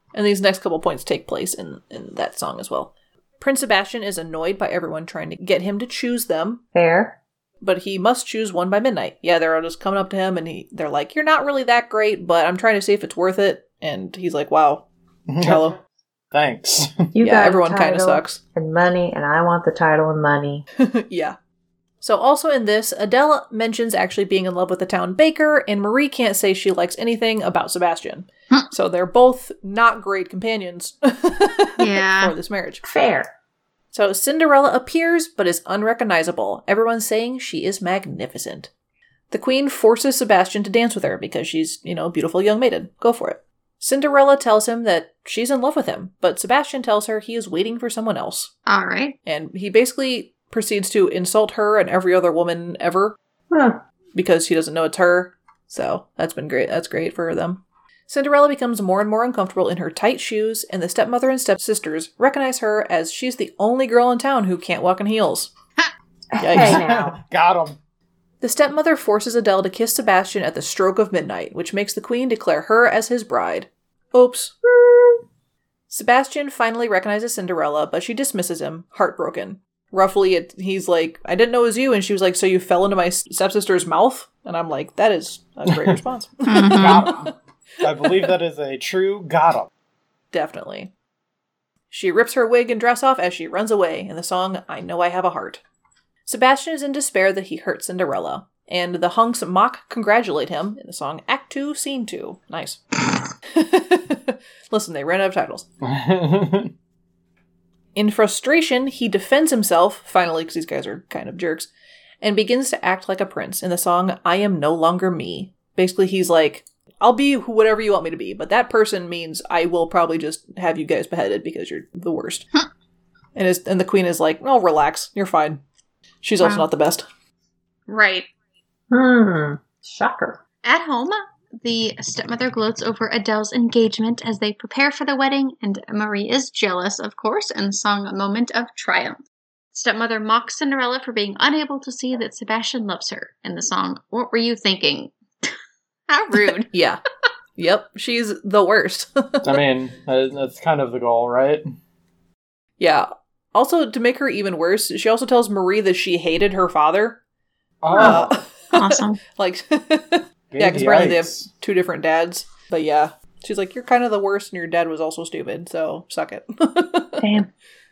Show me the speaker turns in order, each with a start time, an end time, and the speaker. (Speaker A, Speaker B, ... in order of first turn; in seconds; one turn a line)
Speaker A: 0.1-6.6
Speaker B: 6.7-7.2
Speaker A: 7.6-14.9
Speaker C: 15.3-15.7
Speaker A: 15.4-15.8
Speaker C: 16.3-17.1
Speaker B: 17.1-20.6
Speaker A: 17.2-18.4
Speaker A: 20.8-21.4
Speaker A: 22.0-32.8
Speaker D: 31.8-32.4
Speaker B: 32.8-33.3
Speaker A: 33.9-38.7
Speaker A: 39.3-48.5
Speaker D: 48.7-49.2
Speaker A: 49.2-53.2
Speaker B: 53.5-53.8
Speaker A: 54.2-65.5
Speaker B: 66.3-67.2
Speaker A: 66.4-66.8
Speaker C: 66.5-67.8
Speaker A: 68.4-74.5
Speaker B: 74.7-75.2
Speaker A: 75.9-87.3
Speaker C: 85.7-86.0
Speaker D: 86.5-87.1
Speaker C: 86.7-89.7
Speaker A: 87.9-88.3
Speaker A: 90.3-90.9
Speaker A: 91.9-95.6
Speaker A: 96.3-102.8
Speaker A: 103.5-105.7
Speaker C: 105.8-106.7
Speaker A: 108.0-111.7
Speaker A: 112.2-122.5
Speaker A: 123.4-125.6
Speaker A: 126.2-127.1
Speaker D: 126.4-126.7
Speaker D: 127.9-128.3
Speaker B: 128.9-130.4
Speaker D: 130.6-139.2
Speaker D: 139.7-145.6
Speaker D: 146.1-146.7
Speaker A: 146.7-147.0
Speaker A: 147.6-149.6
Speaker C: 149.4-151.7
Speaker A: 152.8-157.2
Speaker C: 157.8-158.4
Speaker A: 157.9-167.2
Speaker D: 158.7-159.2
Speaker C: 160.5-161.5
Speaker D: 167.2-167.5